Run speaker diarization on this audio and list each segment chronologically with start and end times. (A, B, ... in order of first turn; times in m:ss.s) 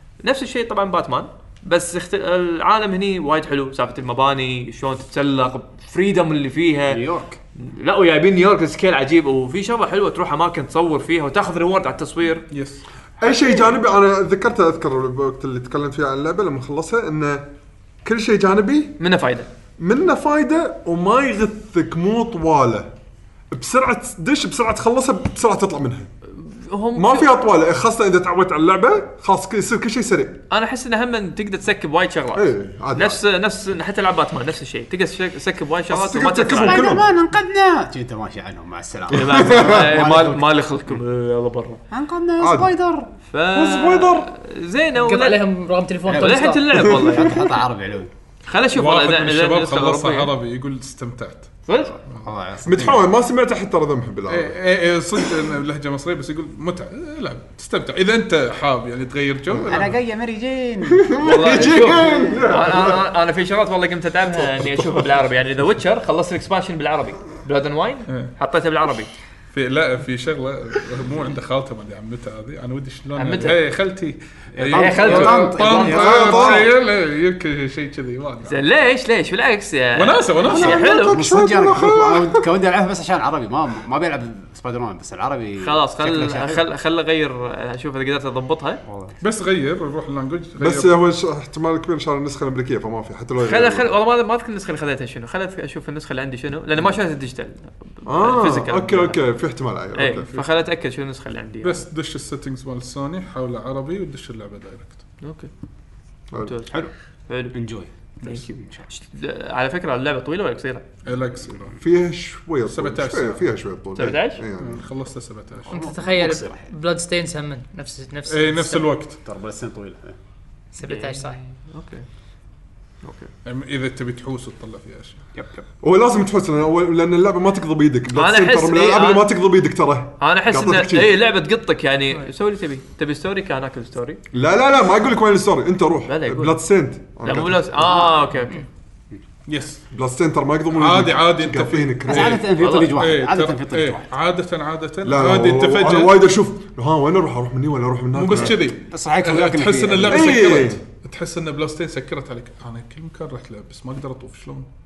0:00.2-0:07.0 A
0:06.9-0:07.4 B
0:07.6-0:12.4 A
0:12.5-0:12.8 C
0:13.2-0:17.5 D
0:18.0-0:19.0 D
0:19.0-0:19.5 A
0:19.8-0:22.9 D
0:23.5-0:26.1 D
0:26.3-0:27.3 A
0:27.0-0:30.4 D
0:30.5-0:37.0 A
0:32.3-0:33.2 D
0:35.9-0:37.0 D
0:36.5-0:40.5 B
0:39.1-0:40.0 D
0:39.1-0:41.8 A
0:41.9-0:43.1 B
0:42.4-0:42.8 D
0:43.3-0:45.4 A
0:43.5-0:44.3 D
0:45.0-0:46.8 E
0:46.1-0:48.1 B
0:46.1-0:47.4 A
0:46.8-0:47.5 D
0:48.5-0:50.3 A
0:48.7-0:51.6 C
0:51.7-0:52.0 A
0:52.1-0:53.1 B
0:52.6-0:54.6 D
0:54.3-1:00.0 C
0:55.2-0:55.5 D
0:59.5-0:59.9 D
0:59.6-1:02.5 B
1:00.8-1:03.1 D
1:01.2-1:09.1 A
1:04.4-1:05.1 D
1:08.1-1:08.3 C
1:09.5-1:18.7 C
1:13.2-1:13.6 A
1:14.6-1:16.7 B
1:14.7-1:15.9 A
1:15.8-1:16.7 D
1:18.5-1:21.2 A
1:20.0-1:20.9 C
1:20.4-1:22.4 D
1:20.5-1:26.6 B
1:25.6-1:28.8 A
1:28.8-1:29.2 B
1:29.2-1:31.0 C
1:30.6-1:33.9 D
1:33.4-1:39.2 A
1:38.1-1:40.3 D
1:40.0-1:41.8 A
1:41.6-1:45.0 C
1:45.2-1:45.5 A
1:46.4-1:47.5 A
1:47.5-1:48.9 B
1:48.2-1:50.8 A
1:51.0-1:51.8 C
1:51.8-1:54.9 D
1:52.7-1:53.5 C
1:54.0-1:54.4 A
1:54.5-1:55.8 C
1:55.7-1:56.7 B
1:55.7-1:58.9 E
1:58.3-1:59.2 C
1:59.2-2:00.2 B
2:00.8-2:01.4 E
2:00.8-2:02.0 A
2:03.0-2:03.3 A
2:03.4-2:05.3 C
2:05.4-2:05.6 B
2:05.8-2:11.2 D
2:08.1-2:09.3 A
2:10.2-2:14.2 A
2:14.3-2:17.7 D
2:16.1-2:16.6 A
2:17.2-2:18.6 A
2:17.8-2:18.1 B
2:19.5-2:19.8 C
2:19.9-2:22.4 D
2:20.7-2:26.3 C
2:22.1-2:24.1 B
2:22.6-2:23.0 A
2:25.0-2:28.6 D
2:28.1-2:34.7 C
2:28.9-2:30.7 B
2:30.1-2:30.8 D